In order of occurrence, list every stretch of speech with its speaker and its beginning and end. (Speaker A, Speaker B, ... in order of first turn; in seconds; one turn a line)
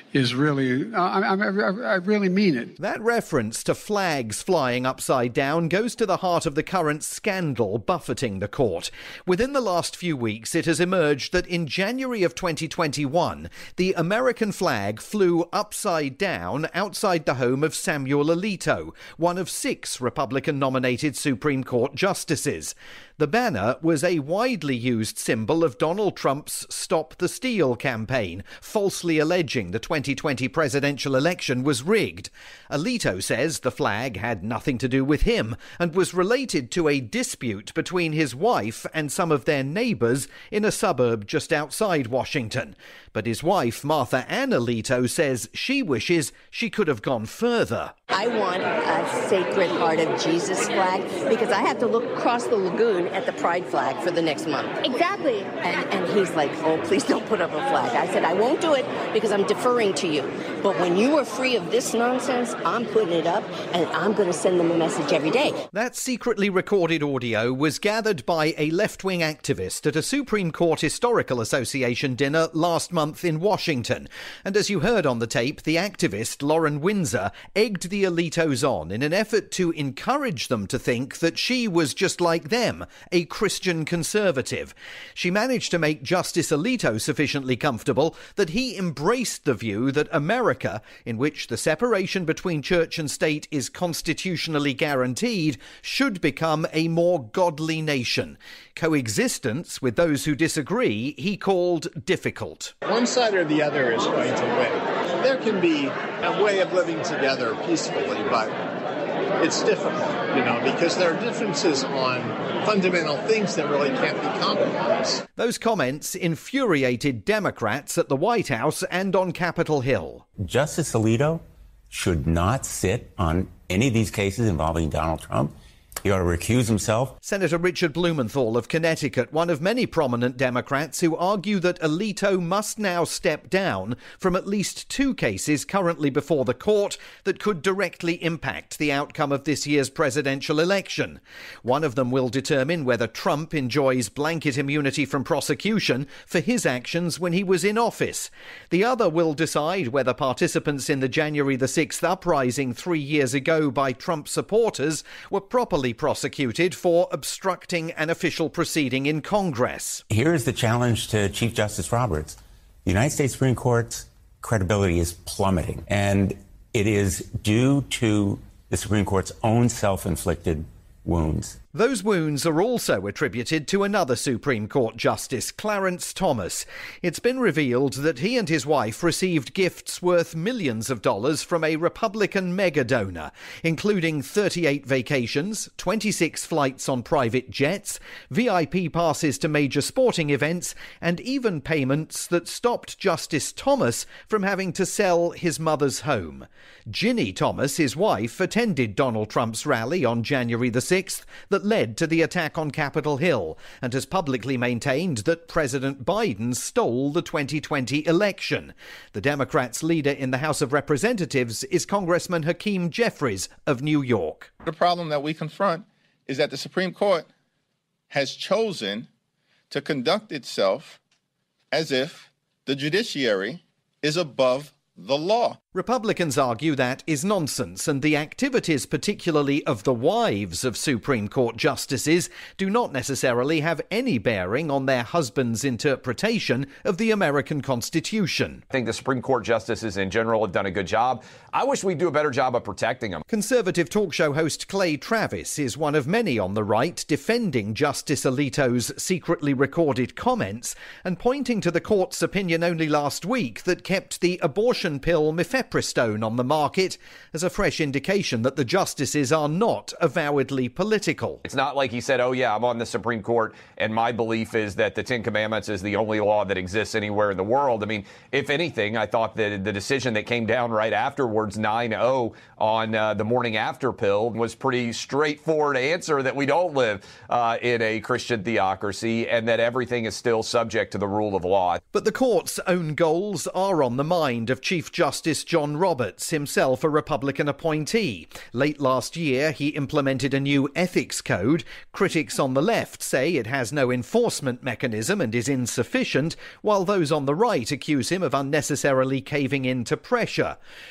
Speaker A: 0.1-2.7
Speaker B: 2.8-47.9
Speaker C: 48.1-65.6
Speaker B: 65.7-102.7
Speaker D: 102.9-108.5
Speaker D: 109.4-115.2
Speaker B: 115.4-120.2
Speaker E: 120.4-127.1
Speaker B: 127.2-160.0
Speaker E: 160.1-171.5
Speaker B: 171.7-214.5
Speaker F: 214.7-217.2
Speaker F: 218.1-219.1
Speaker F: 219.7-221.0
Speaker F: 221.7-225.5
Speaker B: 225.7-238.6
Speaker G: 238.7-243.2
Speaker B: 243.3-261.4
Speaker G: 261.4-281.8
Speaker B: 281.9-300.6